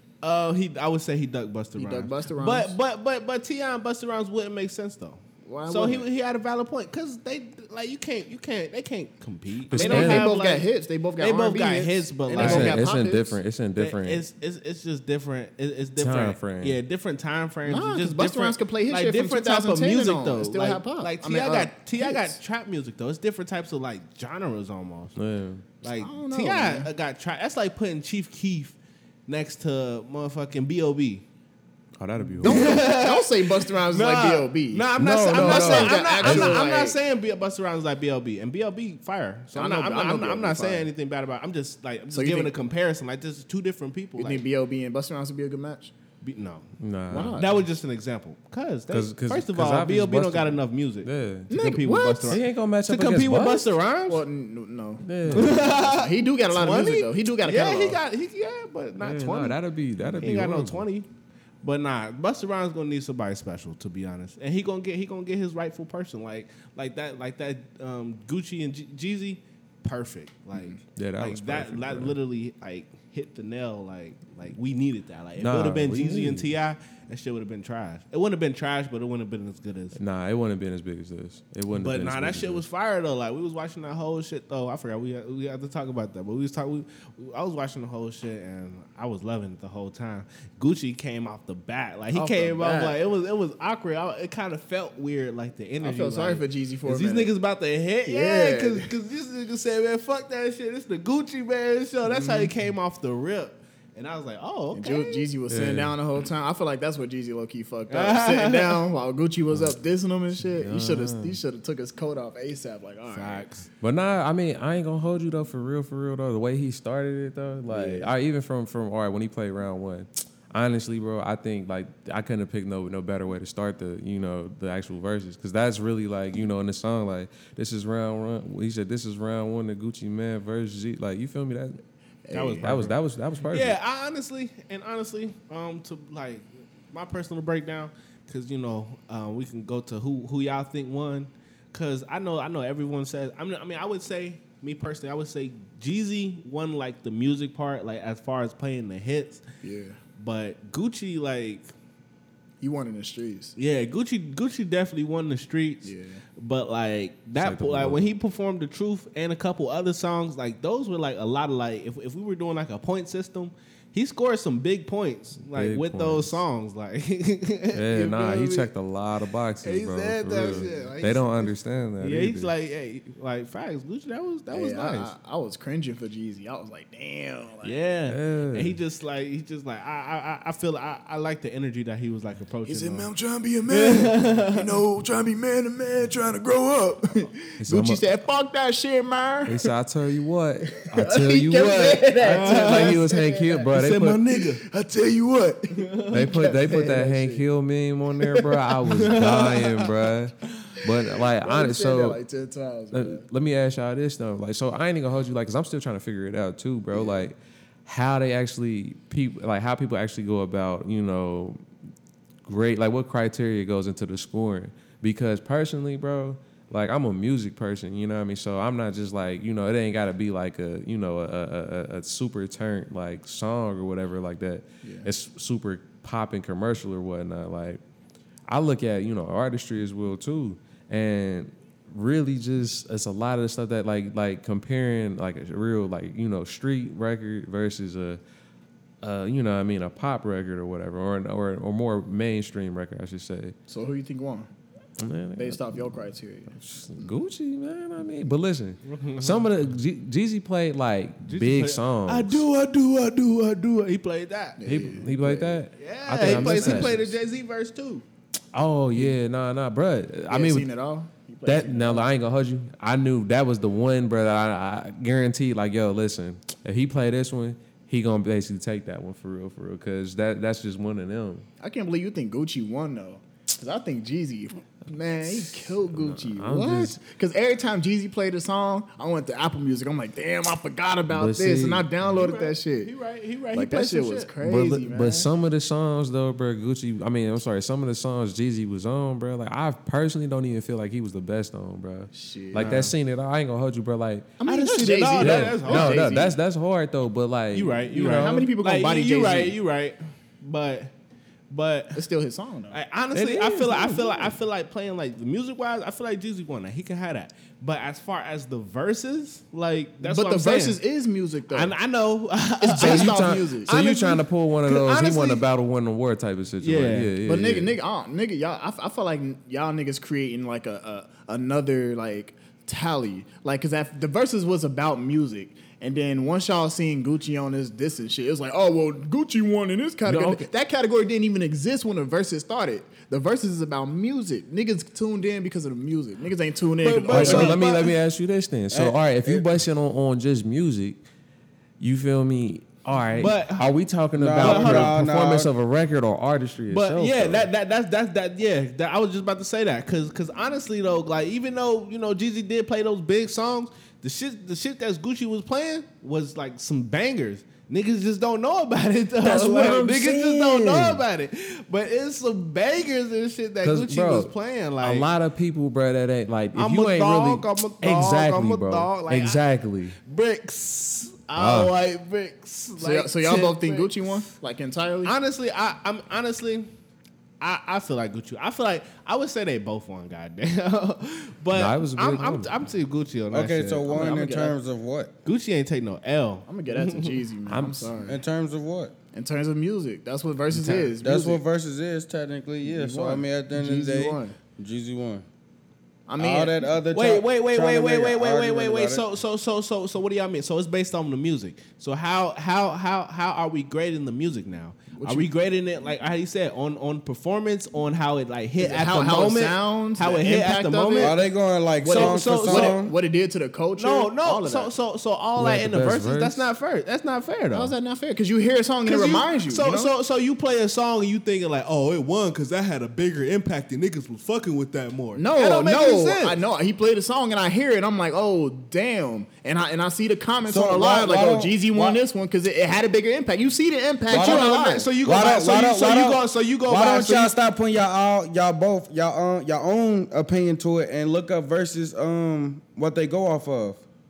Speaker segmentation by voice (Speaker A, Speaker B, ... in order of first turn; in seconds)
Speaker A: 0.2-12.8, 13.8-25.2, 25.8-28.8, 29.3-31.2, 32.4-44.4, 46.2-46.7, 47.3-54.2, 55.3-59.6, 60.2-61.1, 61.6-80.0, 81.7-105.3, 107.9-108.8, 113.1-113.7, 132.3-133.0, 133.5-149.4, 150.2-151.7, 153.6-168.7, 169.6-175.1, 177.6-183.1, 183.7-184.7, 192.2-193.0, 193.7-194.6, 195.8-196.4, 198.8-199.9, 248.8-249.5, 251.3-254.6, 255.8-258.1, 282.1-284.3, 292.6-292.9, 294.4-296.2, 297.5-300.9, 301.5-302.1, 302.7-310.8, 311.5-315.5, 316.6-317.1, 336.8-337.9, 343.1-343.7, 344.4-345.0, 346.7-365.1, 366.6-369.4, 370.0-374.2, 375.1-376.7, 377.4-384.1, 385.2-387.2, 396.9-411.2, 411.9-412.8, 413.8-417.7, 418.9-426.4, 434.1-437.3
Speaker B: 1.8-2.8, 5.4-6.1, 9.7-13.4, 17.7-22.4, 25.9-26.9, 32.2-37.0, 39.5-40.9, 42.1-42.5, 44.2-45.9, 47.1-47.6, 51.5-52.4, 54.1-58.0, 92.1-93.0, 95.8-97.3, 98.1-98.9, 102.1-102.5, 104.7-113.5, 117.7-118.1, 132.3-132.7, 149.6-150.0, 152.6-153.6, 155.8-156.2, 170.4-170.9, 174.5-177.8, 182.7-189.7, 190.7-193.7, 194.3-197.4, 201.4-203.3, 206.9-207.3, 224.8-225.1, 243.7-244.5, 245.4-247.1, 254.6-255.6, 256.2-257.2, 260.3-262.1, 271.6-282.9, 283.5-285.3, 292.1-292.9, 294.4-296.4, 297.9-299.6, 301.9-302.8, 310.0-311.8, 312.6-313.7, 317.2-337.6, 372.8-375.1, 383.9-384.6, 386.5-388.2, 389.1-391.4, 392.6-394.4, 396.1-396.7, 405.0-405.3, 408.6-411.2, 411.8-414.7, 417.5-419.9, 425.2-434.9
Speaker C: 9.7-10.3, 12.4-14.2, 16.0-16.8, 25.2-25.6, 32.0-32.8, 35.0-36.6, 46.8-47.4, 48.9-51.5, 52.3-53.7, 55.0-55.7, 59.0-60.9, 71.0-72.2, 75.4-76.5, 80.0-82.6, 105.5-106.0, 110.6-111.4, 113.8-131.8, 132.6-133.8, 157.4-158.0, 165.5-166.4, 167.7-172.5, 178.1-178.8, 187.6-188.0, 189.5-194.2, 196.1-202.2, 202.9-211.6, 212.4-227.8, 228.5-238.2, 239.0-243.6, 245.0-245.9, 246.6-252.4, 254.7-256.9, 258.5-260.7, 261.5-271.5, 275.2-277.0, 281.1-281.9, 284.4-294.4, 295.1-298.5, 303.1-304.3, 312.8-317.7, 330.1-330.5, 337.1-341.0, 341.8-347.5, 359.2-361.0, 363.6-370.0, 371.4-371.7, 381.5-382.5, 387.5-388.0, 415.4-416.5
Speaker D: 338.7-339.5, 344.1-345.5, 383.3-385.1, 388.1-388.9, 391.0-395.2, 396.2-399.1, 411.0-412.9, 430.4-432.0, 434.1-443.8